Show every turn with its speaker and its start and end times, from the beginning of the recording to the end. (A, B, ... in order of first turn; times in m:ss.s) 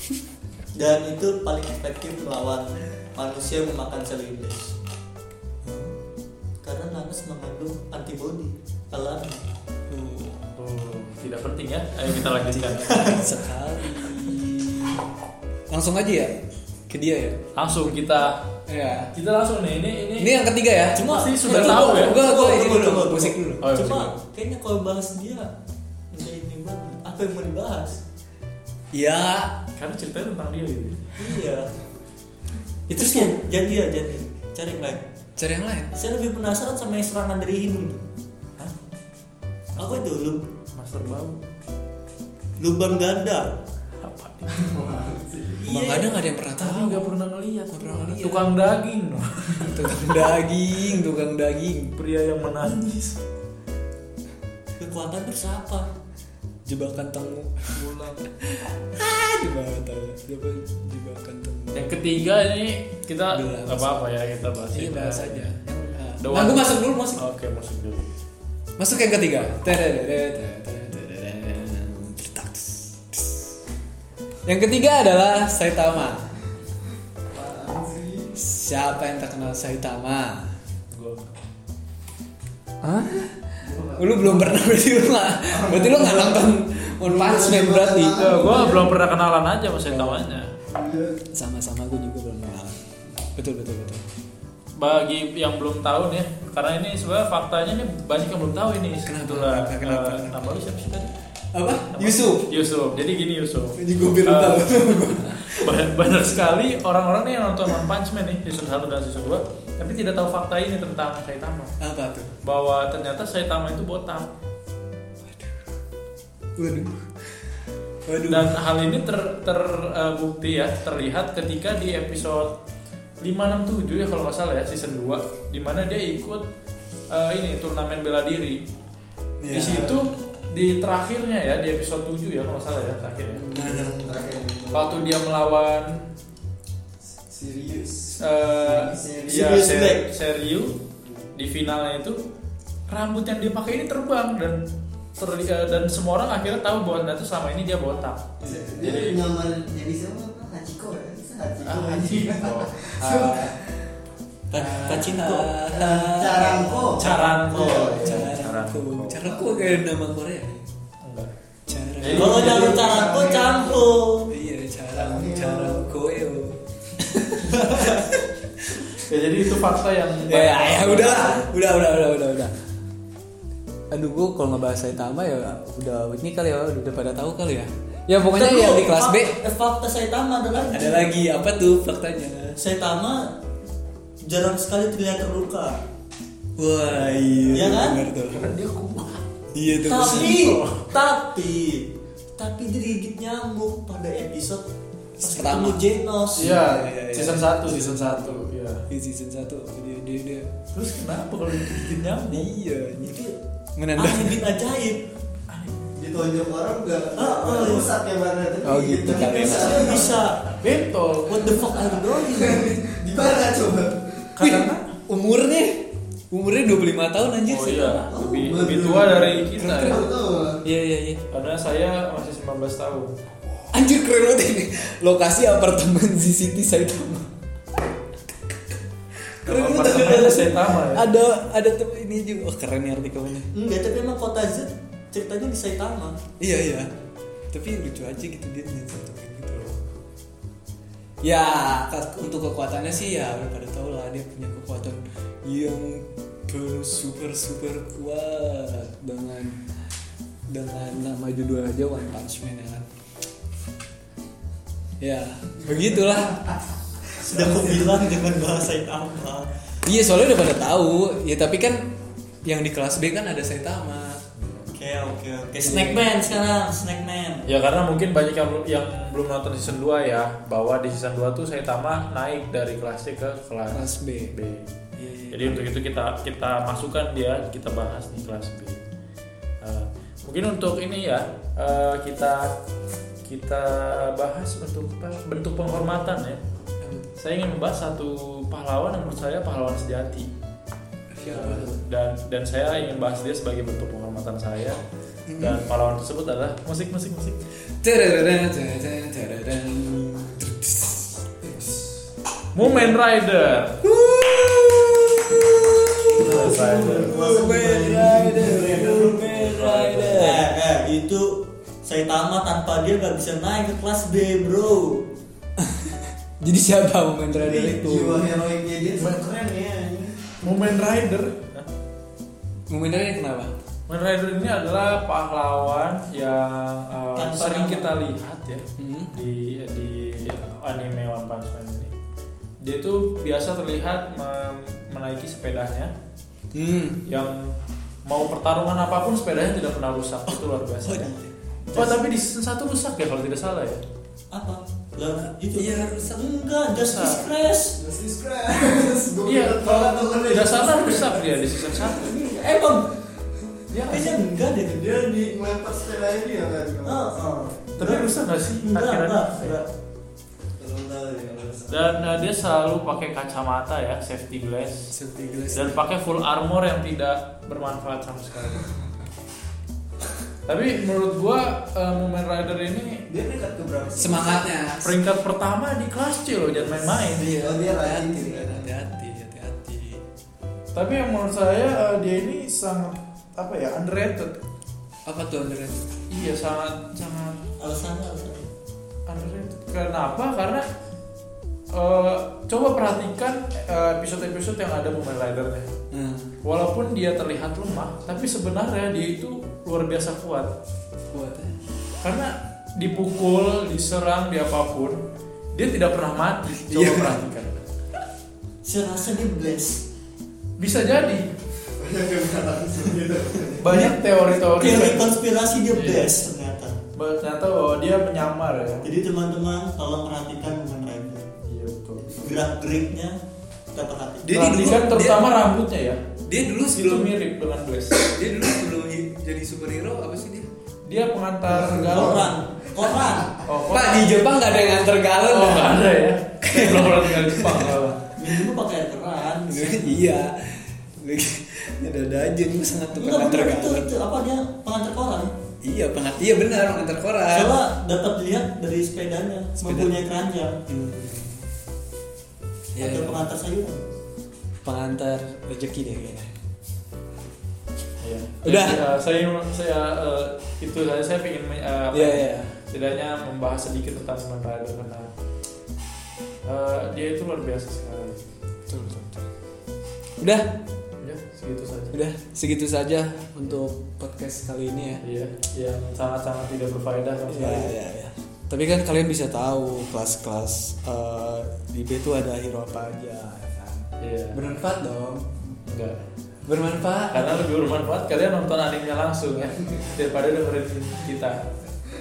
0:00.7-0:04.7 A
0:05.6-0:05.9 B
0:06.6-0:09.4 A
0:09.9-0:10.5 B
0:10.6-0:13.3 C
0:12.3-0:15.0 B
0:15.7-0:17.4 B
0:17.5-0:18.5 C
0:18.7-0:19.1 B
0:19.1-0:20.4 C
0:20.2-0:23.6 B
0:20.9-0:25.5 A
0:21.0-0:22.2 C
0:23.6-0:24.1 C
0:26.1-0:28.0 A
0:28.9-0:29.6 B
0:29.8-0:31.1 C
0:31.2-0:31.7 A
0:32.9-0:35.0 A
0:32.9-0:33.3 B
0:35.4-0:35.9 B
0:35.9-0:38.0 A
0:39.8-0:40.4 A
0:40.7-0:41.4 C
0:42.6-0:43.5 A
0:44.0-0:44.8 C
0:44.5-0:45.6 D
0:45.6-0:46.1 A
0:45.7-0:47.2 B
0:46.6-0:50.3 C
0:47.7-0:48.5 B
0:49.6-0:51.9 B
0:52.0-0:53.2 C
0:54.8-0:55.9 A
0:56.6-0:57.8 B
0:58.4-1:02.0 B
1:01.7-1:05.5 C
1:03.3-1:04.1 B
1:04.7-1:07.2 B
1:06.2-1:08.1 C
1:08.8-1:13.5 B
1:14.4-1:16.3 B
1:17.3-1:18.3 D
1:18.3-1:20.5 B
1:20.9-1:21.4 C
1:22.8-1:23.4 B
1:23.6-1:24.7 D
1:24.0-1:28.3 B
1:25.5-1:29.0 D
1:28.1-1:30.5 C
1:29.9-1:30.3 B
1:30.6-1:31.2 D
1:31.3-1:32.8 B
1:33.3-1:34.0 B
1:34.7-1:41.1 C
1:39.0-1:40.5 B
1:41.5-1:42.5 B
1:41.9-1:51.7 C
1:43.7-1:45.8 B
1:51.8-1:52.3 B
1:52.4-1:54.3 C
1:55.2-1:55.6 B
1:56.6-1:57.0 B
1:58.0-1:58.6 B
1:58.3-2:02.6 C
2:03.2-2:06.4 C
2:07.1-2:08.6 C
2:09.4-2:10.0 B
2:09.5-2:13.4 C
2:09.6-2:09.9 D
2:13.3-2:14.0 B
2:13.5-2:15.1 D
2:14.7-2:16.1 C
2:17.1-2:19.6 D
2:18.2-2:20.8 C
2:19.3-2:20.1 A
2:21.0-2:21.3 D
2:21.3-2:22.2 C
2:22.9-2:24.6 C
2:25.2-2:29.2 C
2:28.4-2:33.5 D
2:31.6-2:33.5 C
2:34.5-2:35.5 A
2:34.5-2:37.0 B
2:35.7-2:38.2 D
2:36.9-2:39.4 C
2:37.7-2:40.7 B
2:41.0-2:41.3 C
2:41.7-2:42.6 B
2:42.0-2:42.8 C
2:42.1-2:44.3 A
2:42.2-2:44.0 D
2:44.3-2:48.8 B
2:44.9-2:45.9 D
2:47.7-2:48.0 A
2:49.0-2:51.5 C
2:50.3-2:52.5 B
2:53.9-2:59.4 B
2:58.3-3:01.2 A
3:00.7-3:02.6 B
3:02.6-3:03.4 A
3:04.2-3:05.8 A
3:06.6-3:08.5 B
3:07.5-3:08.0 A
3:08.3-3:09.2 C
3:09.5-3:10.4 B
3:09.8-3:14.7 A
3:09.9-3:10.9 C
3:15.2-3:15.8 B
3:15.2-3:16.6 A
3:16.4-3:18.8 C
3:16.4-3:20.5 B
3:20.7-3:22.5 C
3:22.3-3:23.2 B
3:23.0-3:23.4 A
3:23.8-3:24.4 B
3:24.0-3:25.0 A
3:25.5-3:25.9 C
3:25.9-3:30.2 D
3:27.2-3:27.9 A
3:28.6-3:30.0 B
3:29.4-3:30.4 A
3:30.5-3:31.5 C
3:31.2-3:32.8 A
3:31.7-3:34.4 D
3:34.4-3:34.9 C
3:34.4-3:38.1 B
3:37.5-3:40.0 C
3:38.1-3:40.6 D
3:40.6-3:41.2 B
3:41.3-3:43.2 C
3:43.7-3:47.3 B
3:49.3-3:53.5 B
3:49.4-3:51.1 C
3:53.5-3:56.2 A
3:56.4-3:56.9 B
3:57.5-3:59.8 B
4:01.2-4:09.6 B
4:10.5-4:12.9 B
4:15.0-4:16.5 B
4:17.1-4:19.5 A
4:19.8-4:21.9 B
4:22.4-4:24.2 B
4:24.4-4:24.7 C
4:24.7-4:27.5 A
4:25.6-4:26.2 B
4:27.5-4:34.7 C
4:33.7-4:34.3 B
4:35.0-4:35.6 B
4:35.3-4:38.8 C
4:39.6-4:42.6 C
4:43.2-4:46.4 C
4:46.8-4:47.1 B
4:47.2-4:50.3 C
4:51.1-4:51.8 B
4:51.2-4:54.8 C
4:55.3-4:55.6 B
4:55.4-4:57.4 C
4:57.8-5:01.8 B
5:02.5-5:03.8 C
5:02.6-5:03.0 B
5:03.8-5:10.4 B
5:06.1-5:10.0 D
5:06.2-5:07.1 C
5:06.2-5:07.6 A
5:10.0-5:15.0 A
5:15.6-5:18.3 B
5:17.3-5:20.3 D
5:19.0-5:19.2 C
5:20.4-5:21.7 C
5:22.7-5:23.5 B
5:23.9-5:31.9 C
5:27.1-5:28.0 A
5:28.8-5:29.1 B
5:32.6-5:35.9 C
5:36.5-5:37.0 B
5:37.0-5:37.5 C
5:38.0-5:41.1 C
5:40.8-5:41.1 B
5:41.7-5:42.0 A
5:41.7-5:43.8 C
5:44.3-5:47.8 A
5:45.6-5:46.3 B
5:46.7-5:47.2 C
5:47.7-5:51.6 D
5:49.2-5:52.1 C
5:51.8-5:52.9 A
5:53.7-5:54.0 C
5:53.8-5:54.9 A
5:53.9-5:57.1 D
5:56.8-5:59.7 A
5:57.8-5:59.6 C
6:00.6-6:02.2 D
6:01.7-6:04.9 C
6:04.9-6:05.8 B
6:05.5-6:08.7 C
6:10.4-6:13.0 C
6:13.1-6:14.4 D
6:14.0-6:15.0 B
6:14.8-6:17.4 C
6:16.5-6:18.7 D
6:17.1-6:20.0 B
6:20.7-6:24.4 C
6:25.0-6:25.8 B
6:26.1-6:27.4 C
6:27.6-6:28.5 A
6:29.1-6:30.7 C
6:31.7-6:35.7 C
6:35.9-6:36.4 B
6:36.4-6:40.5 C
6:41.1-6:41.5 B
6:42.0-6:47.6 C
6:46.6-6:47.2 B
6:48.6-6:49.8 A
6:50.6-6:51.3 C
6:51.8-6:53.8 D
6:53.6-6:55.2 C
6:53.6-6:56.8 A
6:55.7-6:56.1 C
6:57.0-6:58.9 C
6:58.8-7:01.3 A
7:01.4-7:02.2 C
7:02.1-7:03.2 A
7:03.7-7:04.4 A
7:04.2-7:05.4 B
7:04.3-7:06.0 C
7:06.2-7:07.1 B
7:06.6-7:08.1 C
7:08.0-7:10.5 B
7:10.8-7:12.4 C
7:11.6-7:13.4 A
7:13.4-7:14.2 C
7:13.7-7:15.8 B
7:15.3-7:18.1 C
7:16.4-7:17.7 B
7:18.2-7:20.1 A
7:19.5-7:23.9 B
7:22.9-7:25.3 A
7:25.6-7:27.5 B
7:27.3-7:30.6 A
7:29.6-7:30.0 B
7:30.7-7:31.4 B
7:32.7-7:33.3 B
7:32.8-7:33.8 A
7:34.6-7:36.3 B
7:38.0-7:45.1 C
7:38.4-7:38.8 B
7:41.9-7:42.6 B
7:46.4-7:48.2 C
7:48.7-7:49.2 B
7:50.2-7:50.5 B
7:51.0-7:51.9 C
7:51.9-7:55.0 B
7:55.0-7:57.8 C
7:57.3-8:05.4 B
8:04.0-8:04.4 C
8:05.6-8:06.0 C
8:06.4-8:07.4 B
8:07.1-8:11.4 C